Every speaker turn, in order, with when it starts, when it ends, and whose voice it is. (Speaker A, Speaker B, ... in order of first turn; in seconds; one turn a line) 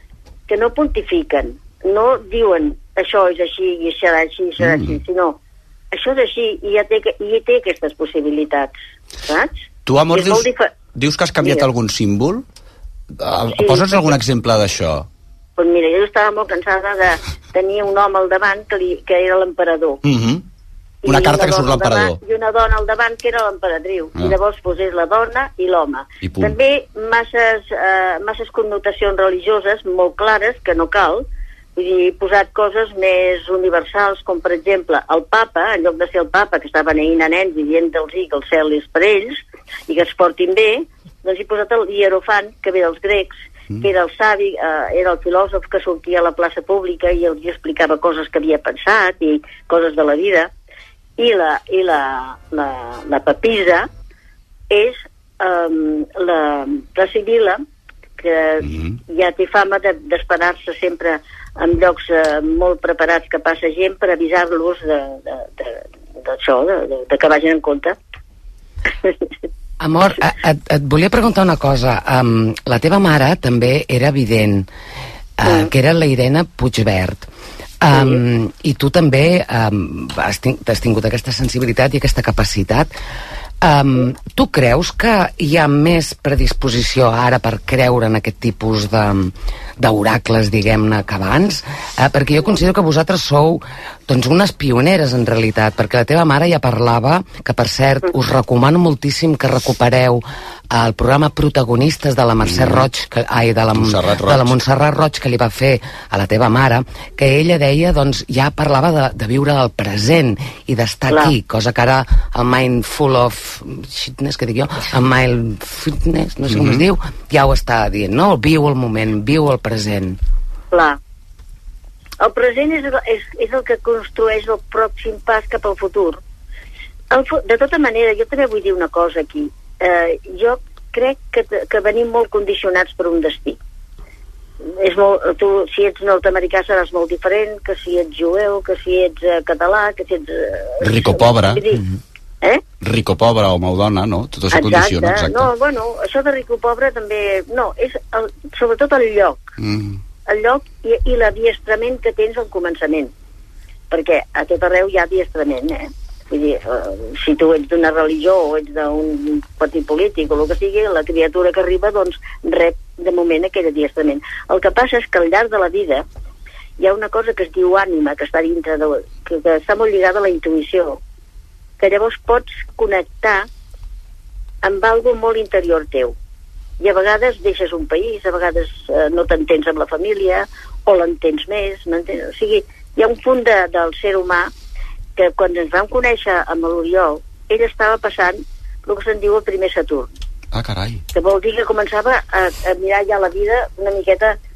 Speaker A: 0.5-5.4
Speaker B: 4.6-5.0
Speaker A: 5.9-8.7
Speaker A: 9.3-10.7
Speaker B: 9.9-12.4
Speaker B: 13.1-15.1
Speaker A: 13.5-14.1
Speaker A: 15.6-20.0
Speaker B: 20.0-20.4
Speaker A: 21.0-31.2
Speaker B: 21.1-22.2
Speaker B: 26.2-26.5
Speaker A: 31.8-50.5
Speaker A: 51.2-53.9
Speaker A: 54.7-57.6
Speaker A: 58.2-68.0
Speaker B: 58.6-59.0
Speaker A: 69.0-69.3
Speaker C: 69.8-74.7
Speaker C: 75.4-77.3
Speaker C: 77.8-82.9
Speaker A: 77.9-78.2
Speaker C: 83.6-120.2
Speaker B: 102.5-102.9
Speaker B: 103.8-104.6
Speaker B: 116.5-116.8
Speaker A: 120.7-121.0
Speaker A: 122.2-126.2
Speaker A: 127.1-133.6
Speaker A: 134.8-141.9
Speaker B: 140.8-141.6
Speaker B: 142.8-145.5
Speaker A: 144.5-149.4
Speaker B: 149.6-150.0
Speaker A: 150.3-153.1
Speaker A: 153.9-166.0
Speaker A: 166.8-171.0
Speaker A: 171.8-173.5
Speaker A: 174.6-176.1
Speaker A: 176.8-184.5
Speaker A: 185.2-190.1
Speaker B: 190.5-191.0
Speaker A: 191.1-194.4